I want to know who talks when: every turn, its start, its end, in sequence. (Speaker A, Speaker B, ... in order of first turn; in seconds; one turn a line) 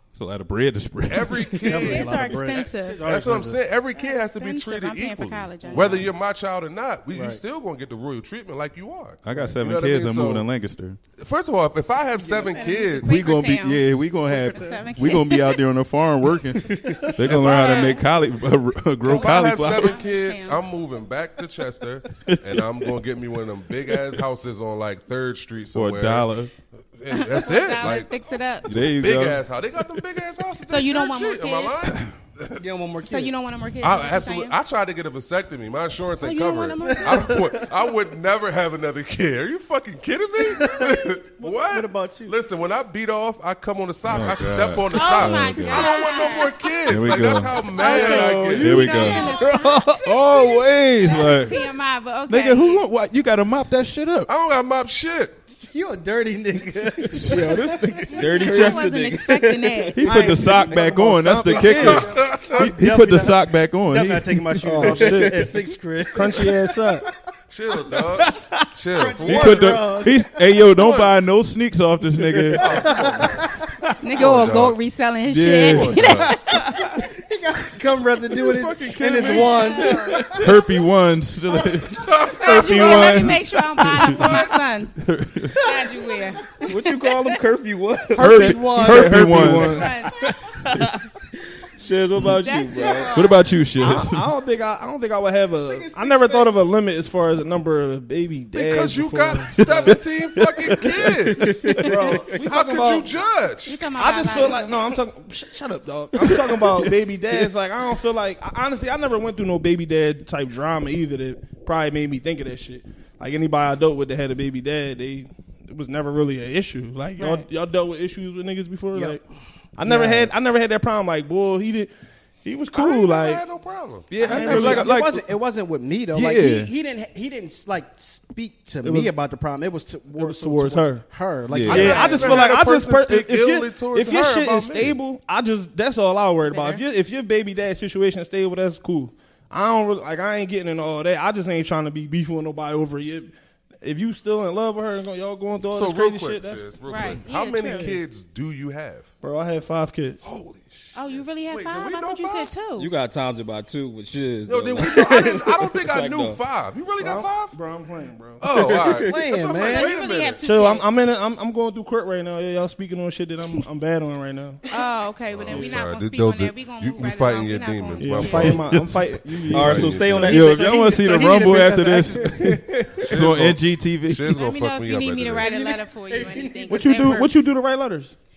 Speaker A: 0.1-1.6
Speaker B: 1.1-10.5
Speaker C: 1.6-3.6
Speaker D: 1.6-3.0
Speaker D: 3.9-6.1
Speaker C: 5.6-6.1
Speaker C: 7.1-7.4
Speaker A: 9.2-11.0
Speaker B: 11.2-13.1
Speaker C: 12.2-12.8
Speaker D: 12.2-15.6
Speaker A: 13.0-20.0
Speaker C: 14.5-14.8
Speaker C: 16.8-17.1
Speaker D: 17.3-18.0
Speaker B: 17.3-17.9
Speaker B: 19.1-26.3
Speaker D: 19.2-20.6
Speaker A: 22.2-22.8
Speaker A: 25.7-26.5
Speaker B: 27.0-32.6
Speaker D: 27.1-28.7
Speaker A: 28.6-29.4
Speaker D: 30.7-31.9
Speaker C: 32.6-33.3
Speaker D: 33.1-34.5
Speaker B: 33.8-49.3
Speaker D: 36.2-37.4
Speaker C: 36.8-37.6
Speaker C: 40.4-42.4
Speaker A: 44.1-46.0
Speaker D: 44.9-52.9
Speaker A: 46.9-47.6
Speaker E: 47.9-48.7
Speaker F: 48.1-48.4
Speaker A: 48.5-51.6
Speaker C: 49.0-50.0
Speaker A: 52.3-54.3
Speaker B: 54.3-55.4
Speaker C: 55.6-58.5
Speaker F: 57.1-58.8
Speaker E: 57.3-60.1
Speaker D: 58.1-60.0
Speaker A: 59.9-64.7
Speaker F: 60.0-62.2
Speaker C: 60.0-67.1
Speaker B: 61.6-62.7
Speaker F: 64.6-65.5
Speaker E: 64.9-65.5
Speaker F: 66.1-67.0
Speaker B: 67.5-69.8
Speaker C: 68.9-70.3
Speaker A: 69.2-72.9
Speaker B: 70.7-71.2
Speaker B: 72.5-73.5
Speaker C: 72.6-73.7
Speaker D: 74.0-76.8
Speaker B: 74.2-74.8
Speaker A: 75.3-76.5
Speaker B: 75.6-76.3
Speaker C: 76.5-80.5
Speaker B: 78.3-80.2
Speaker D: 79.6-79.8
Speaker A: 80.3-84.4
Speaker B: 82.0-83.3
Speaker D: 82.2-85.0
Speaker B: 84.0-84.5
Speaker A: 85.0-85.7
Speaker D: 85.5-86.6
Speaker E: 86.7-88.6
Speaker C: 88.1-89.7
Speaker A: 88.2-89.9
Speaker F: 88.3-90.0
Speaker D: 89.7-90.2
Speaker E: 91.8-93.2
Speaker D: 92.4-93.4
Speaker A: 93.1-94.3
Speaker F: 93.8-99.9
Speaker C: 95.7-96.7
Speaker B: 98.5-101.8
Speaker A: 99.6-101.0
Speaker E: 101.3-102.4
Speaker F: 101.7-103.2
Speaker B: 102.4-103.8
Speaker D: 103.7-104.8
Speaker F: 103.9-119.2
Speaker A: 106.3-106.9
Speaker D: 117.2-117.5
Speaker C: 118.9-119.2
Speaker F: 119.8-121.9
Speaker C: 119.8-120.3
Speaker F: 122.4-123.4
Speaker B: 122.7-124.1
Speaker A: 124.1-125.2
Speaker C: 124.2-132.5
Speaker F: 124.3-124.9
Speaker A: 126.1-126.7
Speaker F: 128.8-129.1
Speaker F: 130.1-131.1
Speaker A: 131.5-132.1
Speaker B: 131.7-134.9
Speaker F: 131.7-146.6
Speaker D: 136.5-136.8
Speaker B: 145.7-149.1
Speaker D: 146.9-148.0
Speaker F: 149.2-150.2
Speaker B: 150.2-152.5
Speaker D: 150.9-152.9
Speaker E: 152.8-156.4
Speaker B: 154.5-157.6
Speaker F: 157.0-158.4
Speaker B: 158.4-160.4
Speaker E: 158.5-159.3
Speaker C: 159.0-160.0
Speaker D: 159.5-160.9
Speaker F: 160.4-164.6
Speaker D: 164.7-168.6
Speaker B: 165.3-168.8
Speaker F: 165.5-165.8
Speaker F: 168.0-170.1
Speaker A: 168.5-174.4
Speaker B: 169.5-170.4
Speaker E: 169.5-171.0
Speaker C: 170.2-172.6
Speaker F: 172.2-173.1
Speaker B: 173.0-175.5
Speaker D: 174.3-177.5
Speaker C: 175.4-177.1
Speaker F: 176.7-178.1